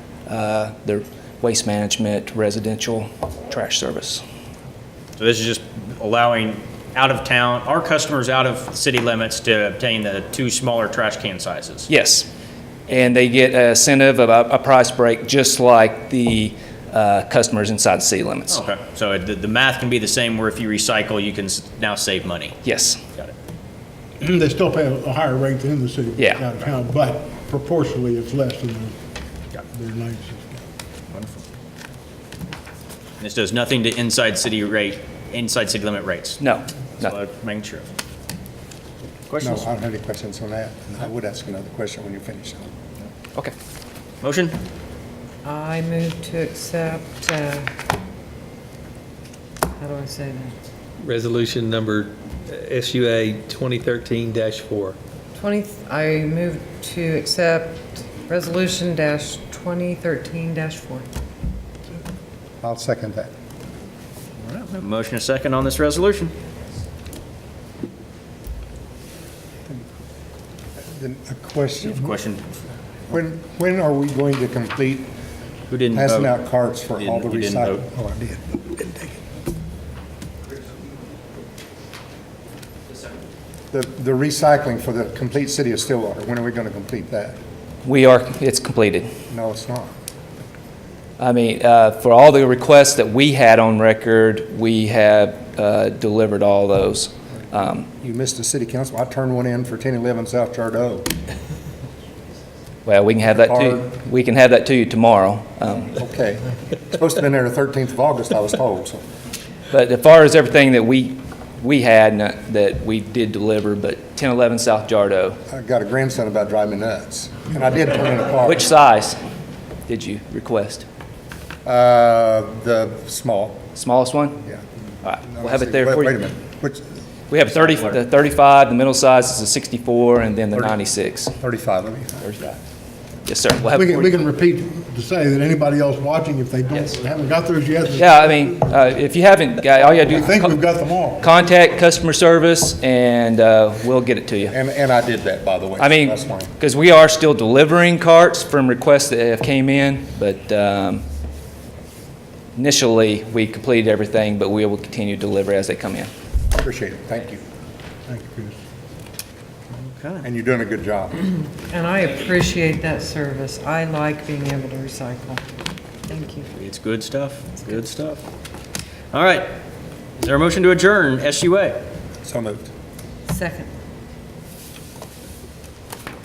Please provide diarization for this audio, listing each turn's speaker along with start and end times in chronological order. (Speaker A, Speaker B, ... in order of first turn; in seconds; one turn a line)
Speaker A: 0.3-4.2
Speaker B: 5.2-11.9
Speaker A: 11.9-12.3
Speaker A: 12.9-18.6
Speaker B: 18.5-22.6
Speaker A: 22.6-23.0
Speaker C: 24.2-29.0
Speaker A: 26.2-26.4
Speaker C: 29.7-30.6
Speaker B: 31.1-31.4
Speaker B: 33.2-36.4
Speaker A: 36.4-37.1
Speaker B: 37.0-37.9
Speaker B: 39.3-39.6
Speaker D: 39.4-42.7
Speaker B: 44.2-44.6
Speaker E: 45.4-47.7
Speaker E: 49.8-50.5
Speaker F: 51.0-55.0
Speaker E: 55.4-61.1
Speaker D: 62.6-63.3
Speaker B: 64.4-66.3
Speaker D: 70.8-72.1
Speaker B: 71.9-72.4
Speaker D: 73.1-75.1
Speaker B: 75.7-76.4
Speaker D: 75.9-79.0
Speaker B: 77.0-77.8
Speaker D: 83.7-87.4
Speaker A: 87.8-89.1
Speaker D: 89.3-89.9
Speaker A: 91.2-97.9
Speaker D: 98.0-101.1
Speaker A: 102.9-106.0
Speaker D: 103.3-103.8
Speaker D: 105.9-109.0
Speaker A: 109.7-115.4
Speaker D: 115.5-118.6
Speaker A: 118.5-119.2
Speaker A: 119.9-120.8
Speaker D: 121.7-123.6
Speaker A: 123.8-124.4
Speaker A: 125.0-126.1
Speaker D: 125.2-126.9
Speaker A: 127.3-131.3
Speaker D: 131.4-132.3
Speaker A: 132.2-132.6
Speaker A: 133.3-134.1
Speaker C: 133.7-138.6
Speaker A: 138.0-140.6
Speaker C: 139.8-141.3
Speaker A: 141.2-144.5
Speaker D: 144.5-146.5
Speaker A: 145.8-151.0
Speaker A: 152.6-156.1
Speaker D: 156.5-157.4
Speaker C: 158.1-158.6
Speaker B: 159.8-160.2
Speaker D: 160.2-161.2
Speaker E: 161.7-165.4
Speaker E: 166.1-166.5
Speaker B: 166.6-168.2
Speaker B: 169.1-169.5
Speaker B: 170.2-171.8
Speaker D: 172.2-172.7
Speaker E: 173.3-173.7